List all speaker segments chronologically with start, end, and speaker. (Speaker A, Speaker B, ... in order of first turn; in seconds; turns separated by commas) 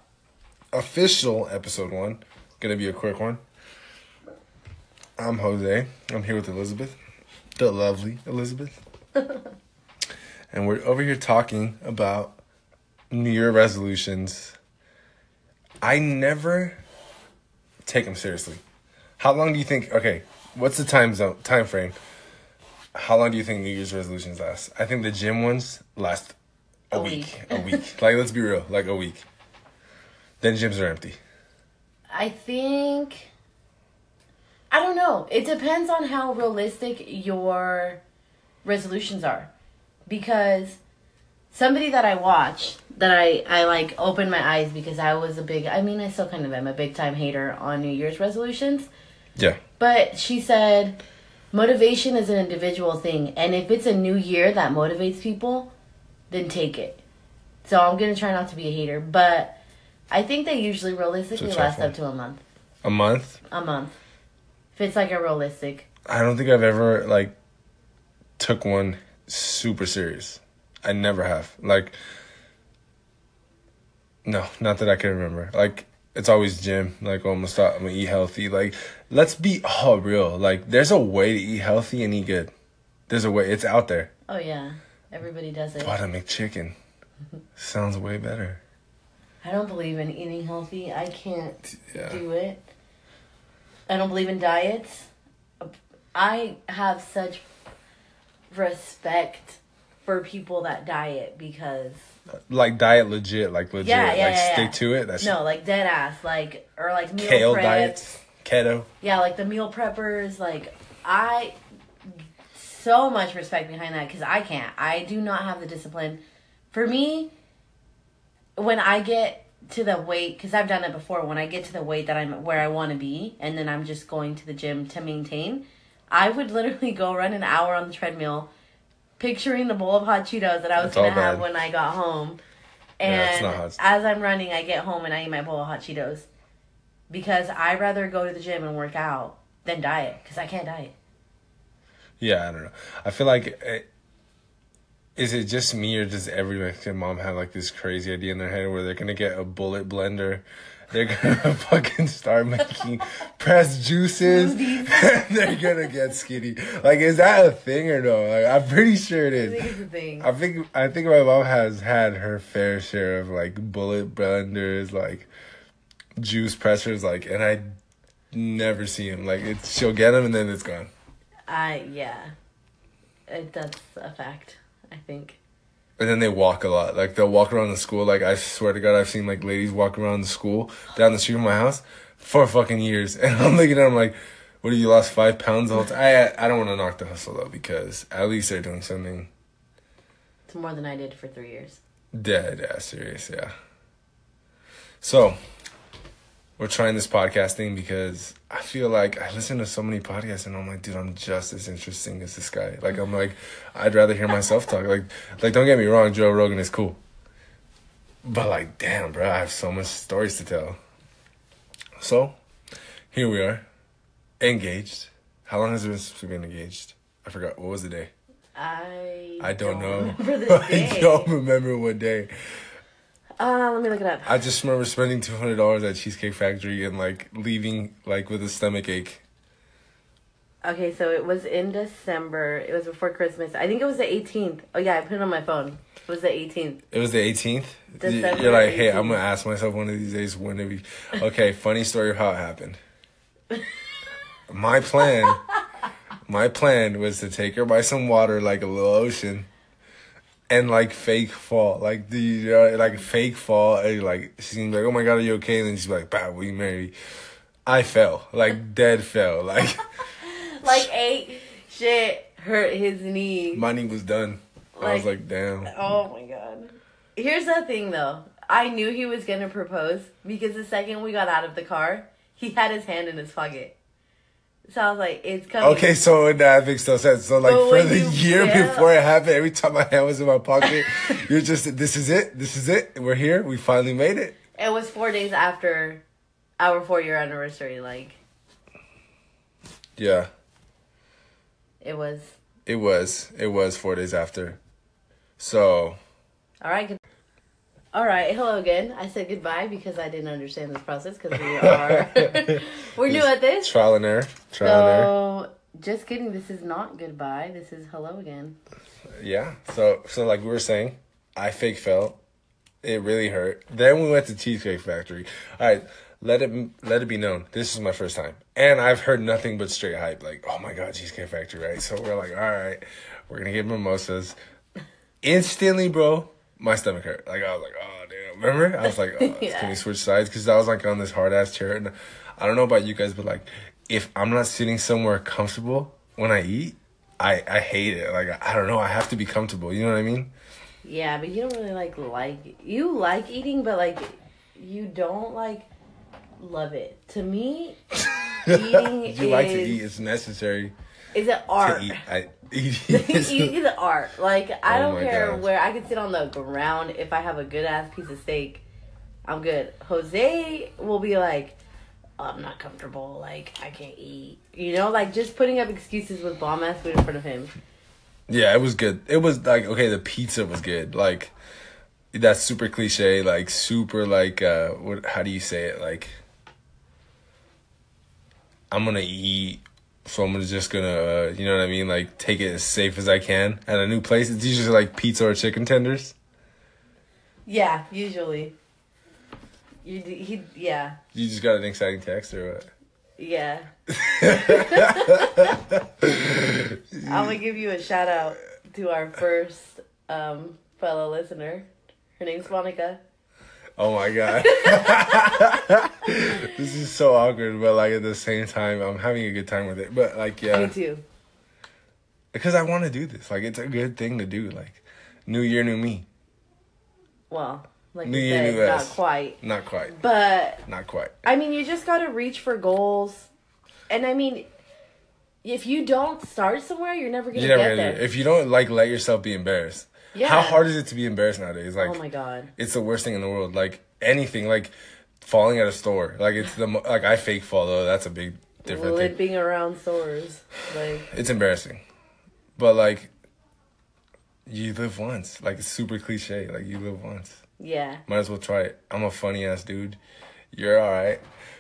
Speaker A: 0.7-3.4, Speaker A: 5.2-7.0, Speaker A: 7.6-8.8, Speaker A: 10.5-12.4, Speaker A: 13.1-14.6, Speaker A: 15.8-16.8, Speaker A: 17.9-18.6, Speaker A: 19.2-21.9, Speaker A: 22.9-26.4, Speaker A: 26.9-29.2, Speaker B: 26.9-27.8, Speaker A: 30.4-31.2, Speaker B: 32.1-33.3, Speaker B: 34.7-38.0, Speaker B: 38.6-39.5, Speaker B: 40.1-40.8, Speaker B: 41.5-48.9, Speaker B: 49.8-51.0, Speaker B: 51.5-55.7, Speaker B: 56.3-57.0, Speaker B: 57.6-59.6, Speaker B: 60.1-62.4, Speaker A: 61.4-61.9, Speaker A: 62.8-63.4, Speaker B: 63.5-63.9, Speaker B: 64.7-65.8, Speaker A: 66.1-67.3, Speaker A: 68.4-72.0, Speaker A: 74.2-82.5, Speaker A: 83.1-84.1, Speaker B: 84.3-85.9, Speaker A: 85.8-86.7, Speaker A: 87.6-88.6, Speaker B: 89.4-92.7, Speaker A: 91.7-92.2, Speaker B: 93.9-95.1, Speaker B: 95.6-97.4, Speaker B: 98.5-102.1, Speaker A: 102.5-105.3, Speaker B: 103.8-108.0, Speaker A: 107.2-108.9, Speaker B: 109.0-111.6, Speaker B: 112.5-117.3, Speaker B: 118.5-128.5, Speaker B: 129.2-132.4, Speaker A: 130.8-131.4, Speaker B: 133.0-136.3, Speaker A: 133.0-133.8, Speaker B: 137.1-140.9, Speaker A: 142.2-143.8, Speaker A: 145.2-159.7, Speaker B: 154.2-155.8, Speaker B: 159.3-160.3, Speaker A: 160.2-165.3, Speaker A: 166.2-167.7, Speaker A: 168.3-170.9, Speaker B: 171.5-172.3, Speaker B: 173.3-175.4, Speaker A: 176.0-189.3, Speaker B: 190.5-191.8, Speaker A: 192.1-193.5, Speaker A: 195.0-195.4, Speaker A: 196.6-207.0, Speaker A: 208.2-210.8, Speaker A: 212.0-212.3, Speaker A: 213.1-213.6, Speaker A: 214.4-218.1, Speaker B: 218.6-221.3, Speaker A: 219.4-222.3, Speaker B: 223.4-224.4, Speaker A: 224.2-229.2, Speaker B: 230.6-236.8, Speaker A: 236.9-242.8, Speaker B: 238.0-239.2, Speaker A: 244.5-245.4, Speaker A: 246.3-249.5, Speaker A: 250.5-256.9, Speaker A: 257.6-259.8, Speaker B: 260.2-263.6, Speaker A: 263.5-265.7, Speaker B: 264.8-265.1, Speaker B: 265.7-273.8, Speaker B: 274.7-275.9, Speaker A: 275.6-284.4, Speaker B: 277.4-278.9, Speaker B: 280.6-281.1, Speaker B: 284.6-286.0, Speaker B: 286.6-288.2, Speaker A: 290.0-290.3, Speaker B: 291.8-292.4, Speaker A: 292.6-294.6, Speaker A: 295.4-296.0, Speaker B: 296.6-297.0, Speaker B: 297.9-303.7, Speaker A: 301.6-305.1, Speaker B: 304.6-308.6, Speaker A: 309.2-312.2, Speaker A: 312.8-324.4, Speaker A: 325.2-340.3, Speaker B: 328.8-329.8, Speaker B: 340.8-345.7, Speaker B: 346.4-347.8, Speaker B: 348.4-349.8, Speaker A: 348.4-350.7, Speaker B: 351.1-352.0, Speaker A: 351.6-353.5, Speaker B: 352.9-358.6, Speaker A: 354.6-355.4, Speaker B: 359.2-361.6, Speaker B: 362.2-367.5, Speaker A: 368.3-371.3, Speaker A: 372.1-376.1, Speaker A: 378.7-386.1, Speaker B: 387.4-388.5, Speaker B: 389.8-391.0, Speaker A: 391.1-392.7, Speaker B: 393.2-393.7, Speaker A: 393.9-397.4, Speaker B: 394.3-395.5, Speaker B: 397.0-403.0, Speaker A: 403.8-410.7, Speaker B: 404.3-405.6, Speaker B: 410.5-411.0, Speaker A: 412.3-416.1, Speaker B: 417.3-419.4, Speaker A: 418.0-420.0, Speaker B: 419.9-420.6, Speaker A: 420.6-421.1, Speaker B: 421.2-423.3, Speaker B: 423.9-424.4, Speaker B: 425.4-428.0, Speaker A: 427.3-432.0, Speaker B: 430.1-430.6, Speaker B: 431.8-432.5, Speaker A: 432.6-439.1, Speaker B: 438.6-441.1, Speaker A: 441.1-441.8, Speaker A: 442.6-443.1, Speaker A: 444.4-447.4, Speaker B: 447.6-448.0, Speaker A: 448.1-450.0, Speaker A: 450.5-451.2